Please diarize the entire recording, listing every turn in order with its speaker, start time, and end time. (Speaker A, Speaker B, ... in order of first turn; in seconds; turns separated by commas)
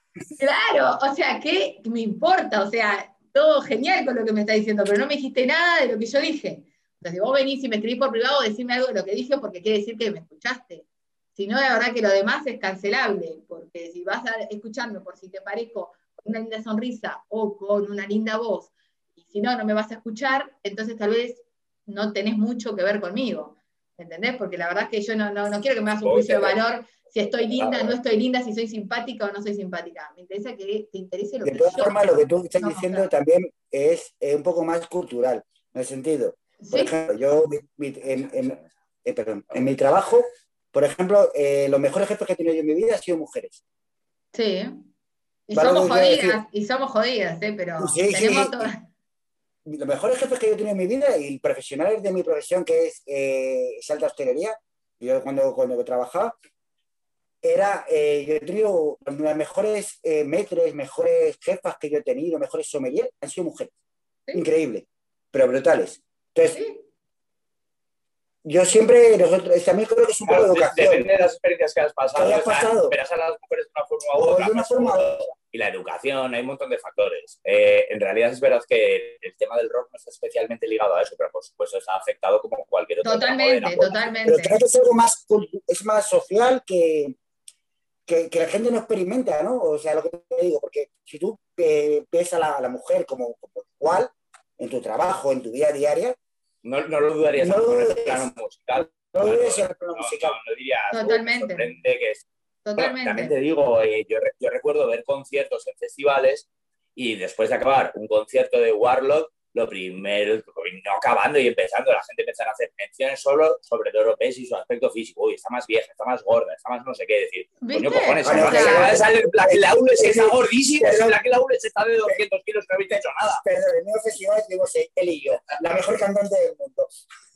Speaker A: 0.4-33.1, Speaker B: 26.0-26.6, Speaker B: 27.6-28.0, Speaker C: 31.4-43.6, Speaker A: 36.6-36.9, Speaker B: 38.1-38.7, Speaker A: 44.3-44.9, Speaker A: 45.5-48.8, Speaker C: 45.5-46.4, Speaker C: 47.8-48.7, Speaker C: 49.7-56.4, Speaker C: 57.4-63.7, Speaker C: 64.3-66.6, Speaker A: 66.5-66.8, Speaker C: 68.4-71.1, Speaker B: 70.3-84.0, Speaker C: 72.2-73.0, Speaker C: 74.1-75.1, Speaker A: 83.0-84.6, Speaker C: 84.2-87.2, Speaker C: 88.1-96.2, Speaker B: 96.6-102.3, Speaker C: 97.4-98.3, Speaker C: 99.2-100.4, Speaker A: 100.9-101.7, Speaker A: 102.7-103.3, Speaker B: 102.8-123.4, Speaker A: 117.6-119.0, Speaker C: 118.2-121.2, Speaker C: 123.4-127.0